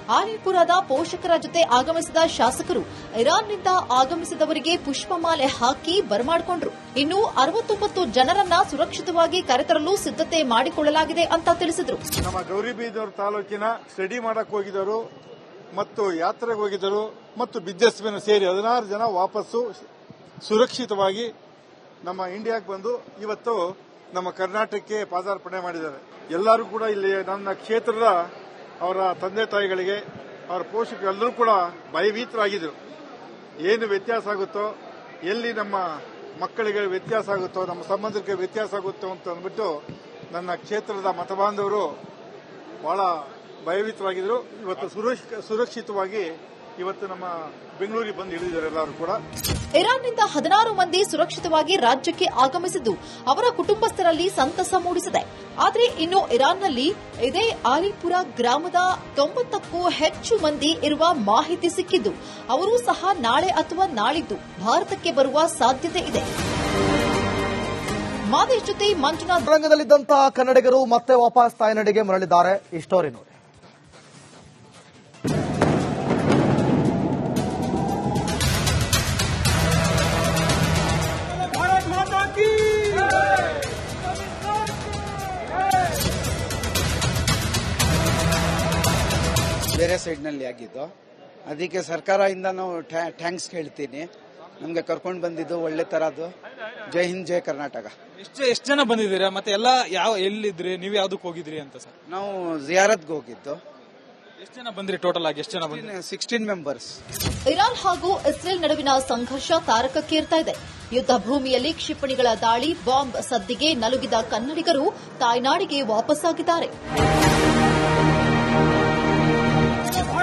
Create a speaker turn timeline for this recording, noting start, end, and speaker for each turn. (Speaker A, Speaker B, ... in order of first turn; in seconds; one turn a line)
Speaker A: 0.1-12.0
Speaker B: 12.2-15.0
Speaker B: 15.7-19.6
Speaker B: 20.4-21.3
Speaker B: 22.1-23.6
Speaker B: 24.1-28.2
Speaker B: 28.8-32.8
Speaker B: 33.6-34.7
Speaker B: 35.3-35.8
Speaker B: 36.4-39.7
Speaker B: 40.3-41.9
Speaker B: 42.8-43.1
Speaker B: 43.6-46.3
Speaker B: 46.8-49.2
Speaker A: 49.8-66.3
Speaker A: 68.3-69.5
Speaker C: 69.5-73.3
Speaker D: 89.7-90.9
Speaker D: 91.5-94.1
Speaker D: 94.6-96.3
Speaker D: 96.9-97.9
Speaker E: 98.2-101.9
Speaker D: 102.1-103.6
Speaker E: 104.4-105.9
Speaker D: 105.7-107.0
Speaker A: 107.5-116.7